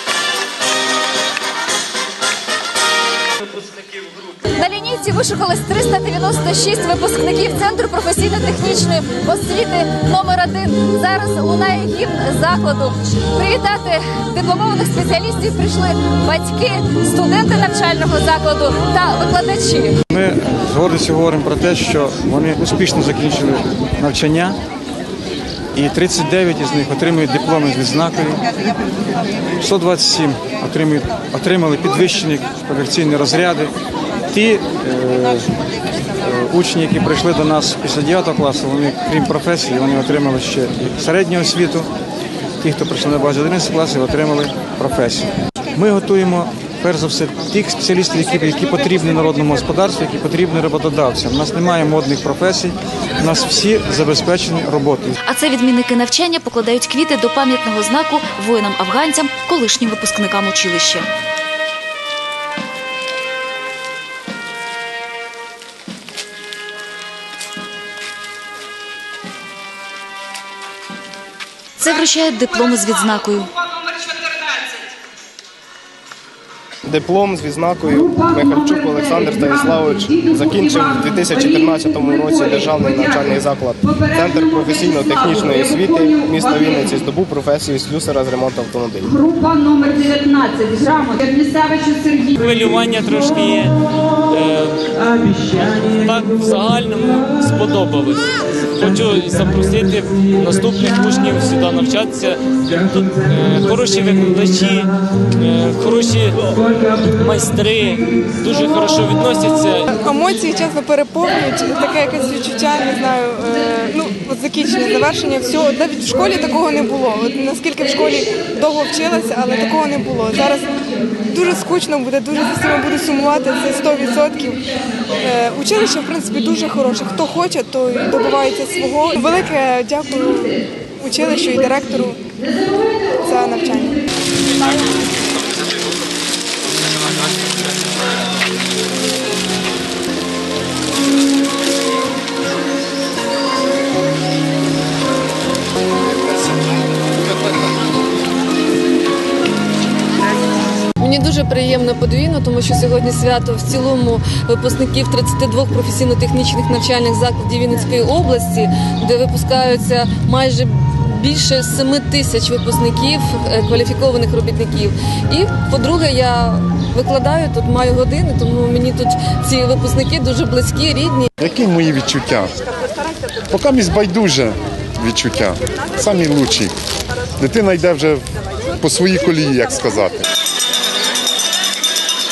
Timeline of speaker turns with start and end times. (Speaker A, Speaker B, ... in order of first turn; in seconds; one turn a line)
Speaker A: 4.5-20.0
Speaker B: 20.1-24.6
Speaker B: 25.7-28.4
Speaker B: 29.6-33.7
Speaker B: 34.3-35.5
Speaker B: 36.2-41.9
Speaker B: 42.6-55.2
Speaker C: 55.2-61.1
Speaker C: 71.8-73.5
Speaker D: 76.8-89.1
Speaker E: 89.2-92.3
Speaker F: 92.3-109.8
Speaker G: 109.8-120.7
Speaker G: 121.3-124.7
Speaker G: 125.2-132.2
Speaker G: 133.2-134.0
Speaker H: 151.0-171.3
Speaker I: 171.4-172.5
Speaker I: 173.5-176.7
Speaker I: 177.4-178.2
Speaker I: 178.8-180.2